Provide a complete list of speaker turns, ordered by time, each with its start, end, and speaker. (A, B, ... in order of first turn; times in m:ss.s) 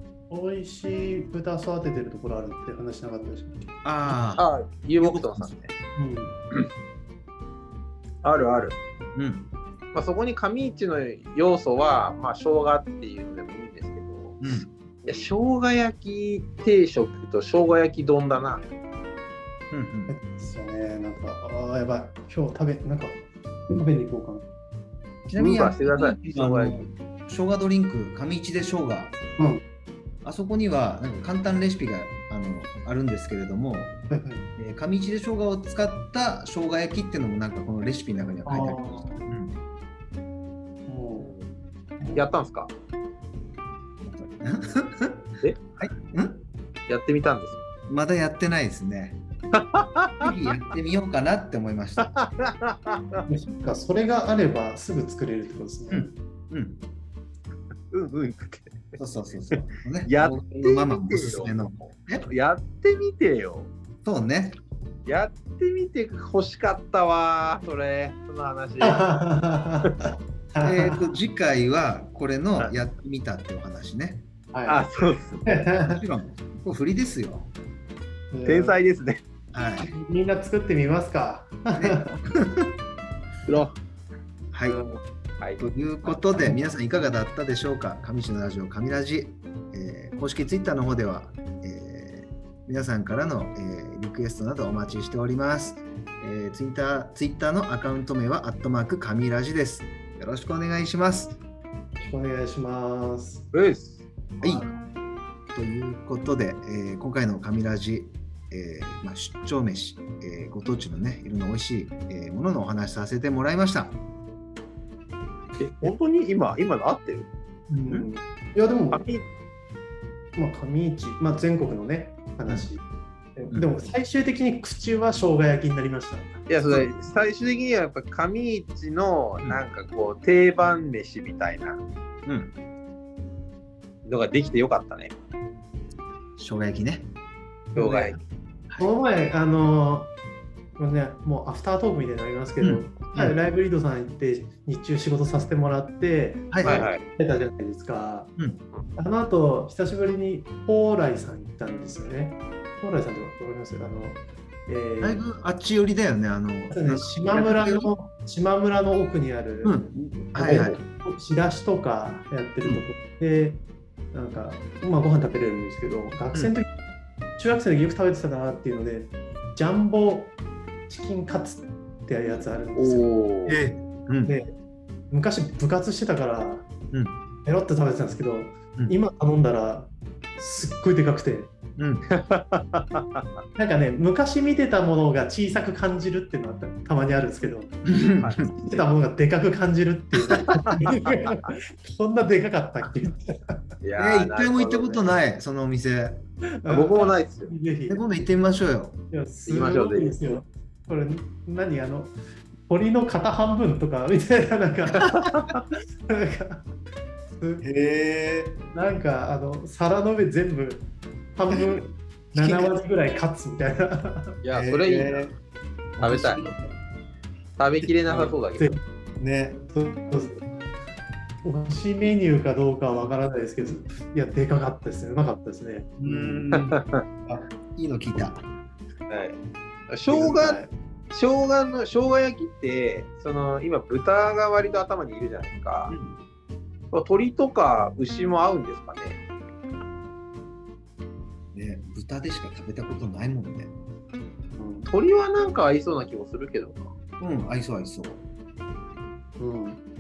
0:00.3-0:04.2 A
0:03.8-0:04.5 B
0:04.4-0:05.7 C
0:05.0-0:05.6 B
0:06.0-0:06.4 A
0:08.2-0:08.8 C
0:09.2-0:09.5 B
0:09.9-0:14.4 C
0:14.4-0:14.7 B
0:15.0-0:18.6 C
0:19.7-0:20.1 B
0:20.1-0:24.4 A
0:25.3-0:29.1 B
0:25.4-0:26.8 C
0:30.2-0:34.0 B
0:34.1-0:34.5 A
0:34.6-0:39.6 B
0:38.4-0:39.3 A
0:40.9-0:41.3 A
0:41.2-0:41.5 C
0:42.0-0:42.3 A
0:42.2-0:42.7 C
0:44.0-0:45.2 B
0:45.4-0:45.8 C
0:45.8-0:46.4 B
0:46.9-0:47.6 C
0:47.9-0:49.2 B
0:49.5-0:50.3 C
0:50.2-0:52.1 B
0:52.0-0:53.3 C
0:53.3-0:56.2 A
0:55.9-0:56.8 B
0:57.9-0:59.0 C
0:59.0-1:02.3 B
0:59.5-1:03.7 C
1:04.0-1:04.6 B
1:05.1-1:09.0 C
1:08.8-1:11.0 A
1:10.6-1:14.3 B
1:14.5-1:14.9 A
1:14.7-1:15.5 C
1:15.5-1:16.0 A
1:15.6-1:17.5 B
1:18.3-1:18.8 A
1:18.5-1:19.2 C
1:19.5-1:19.9 B
1:19.8-1:22.2 A
1:21.8-1:22.7 B
1:23.5-1:23.8 C
1:24.5-1:24.8 B
1:25.6-1:41.4 B
1:26.3-1:26.6 A
1:42.0-1:43.5 A
1:43.5-1:44.1 C
1:44.4-1:44.7 B
1:45.5-1:54.0 B
1:55.6-1:57.3 C
1:57.7-1:59.1 A
1:58.9-1:59.2 C
2:00.4-2:02.8 A
2:03.4-2:06.5 A
2:06.5-2:11.8 C
2:12.3-2:12.5 B
2:14.0-2:15.1 C
2:16.4-2:17.1 B
2:17.8-2:18.2 A
2:17.8-2:18.2 C
2:18.8-2:20.1 A
2:20.8-2:28.3 A
2:22.6-2:23.4 B
2:26.5-2:26.9 B
2:26.6-2:27.0 C
2:29.0-2:35.3 A
2:35.0-2:37.9 B
2:36.7-2:46.7 A
2:39.6-2:40.8 B
2:47.4-2:50.4 A
2:50.9-2:53.1 A
2:52.8-2:53.6 C
2:53.5-2:54.4 B
2:54.3-2:54.6 A
2:55.1-2:56.7 A
2:56.9-2:57.2 B
2:57.4-3:01.5 A
3:01.8-3:02.0 B
3:02.2-3:03.3 C
3:03.6-3:07.7 A
3:07.9-3:08.5 B
3:08.5-3:13.6 A
3:13.8-3:15.1 C
3:14.0-3:16.2 B
3:16.6-3:18.0 A
3:16.7-3:17.5 C
3:17.9-3:19.0 B
3:19.1-3:22.2 A
3:19.5-3:20.2 C
3:22.7-3:25.1 A
3:25.1-3:25.6 C
3:26.1-3:26.7 A
3:27.3-3:27.7 A
3:27.6-3:28.6 B
3:28.7-3:34.4 A
3:31.5-3:31.8 B
3:32.4-3:32.8 B
3:34.4-3:35.3 C
3:34.5-3:35.4 B
3:36.0-3:36.8 B
3:36.0-3:36.5 C
3:37.6-3:38.8 C
3:37.8-3:38.4 B
3:39.2-3:39.6 B
3:39.7-3:40.4 A
3:41.4-3:46.5 A
3:46.0-3:48.5 B
3:46.6-3:47.0 C
3:49.1-3:49.4 C
3:49.9-3:50.6 C
3:50.1-3:50.7 A
3:51.1-3:55.9 C
3:55.9-3:56.2 B
3:56.9-3:59.2 C
4:01.5-4:03.7 B
4:04.6-4:04.9 A
4:04.9-4:06.9 C
4:07.2-4:08.2 B
4:09.4-4:09.8 A